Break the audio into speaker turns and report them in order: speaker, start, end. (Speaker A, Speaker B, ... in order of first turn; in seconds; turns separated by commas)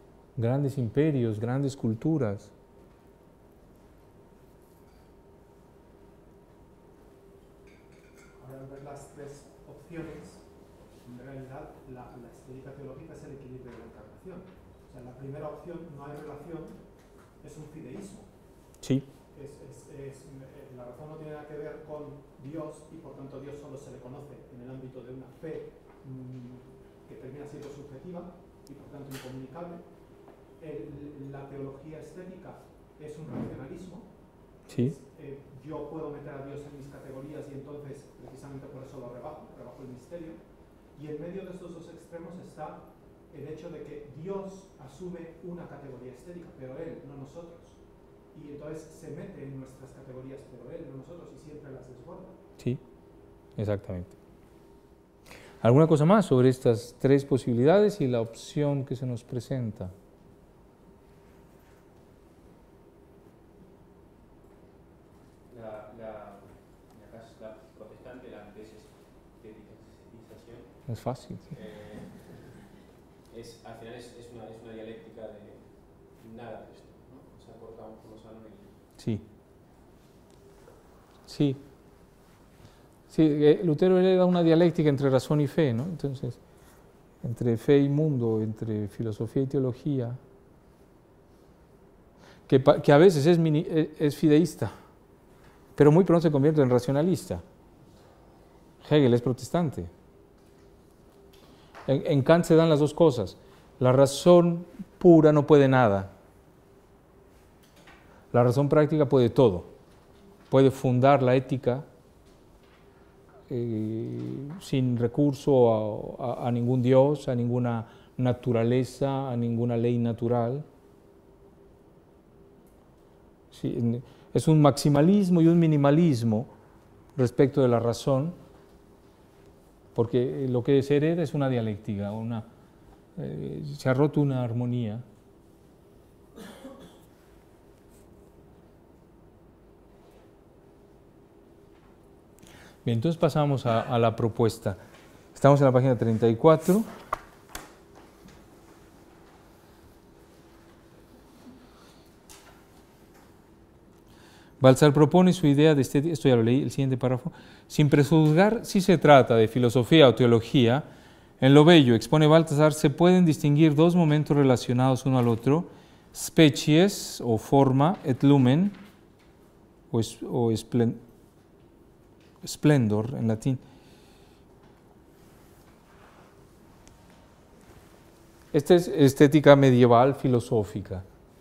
Speaker A: 0.4-2.5, Speaker B: 8.4-10.5, Speaker B: 11.0-16.8, Speaker B: 17.4-18.3, Speaker A: 18.8-19.1, Speaker B: 19.3-29.9, Speaker B: 30.6-34.1, Speaker A: 34.7-35.0, Speaker B: 34.7-40.4, Speaker B: 41.0-47.8, Speaker B: 48.3-52.4, Speaker A: 53.6-54.1, Speaker A: 55.6-59.9, Speaker C: 65.5-70.8, Speaker A: 70.9-71.5, Speaker C: 71.5-72.6, Speaker C: 73.3-78.8, Speaker A: 79.0-79.2, Speaker A: 81.3-81.6, Speaker A: 83.1-86.4, Speaker A: 87.2-90.2, Speaker A: 92.5-94.7, Speaker A: 95.8-97.4, Speaker A: 98.8-99.9, Speaker A: 101.9-106.1, Speaker A: 108.3-109.7, Speaker A: 110.5-111.8, Speaker A: 113.5-120.7, Speaker A: 123.5-126.5, Speaker A: 127.2-128.4, Speaker A: 129.9-132.5, Speaker A: 133.2-135.0, Speaker A: 142.8-144.8, Speaker A: 145.3-146.9, Speaker A: 154.6-160.9, Speaker A: 161.4-168.8, Speaker A: 169.9-171.0, Speaker A: 172.4-173.6, Speaker A: 178.5-181.1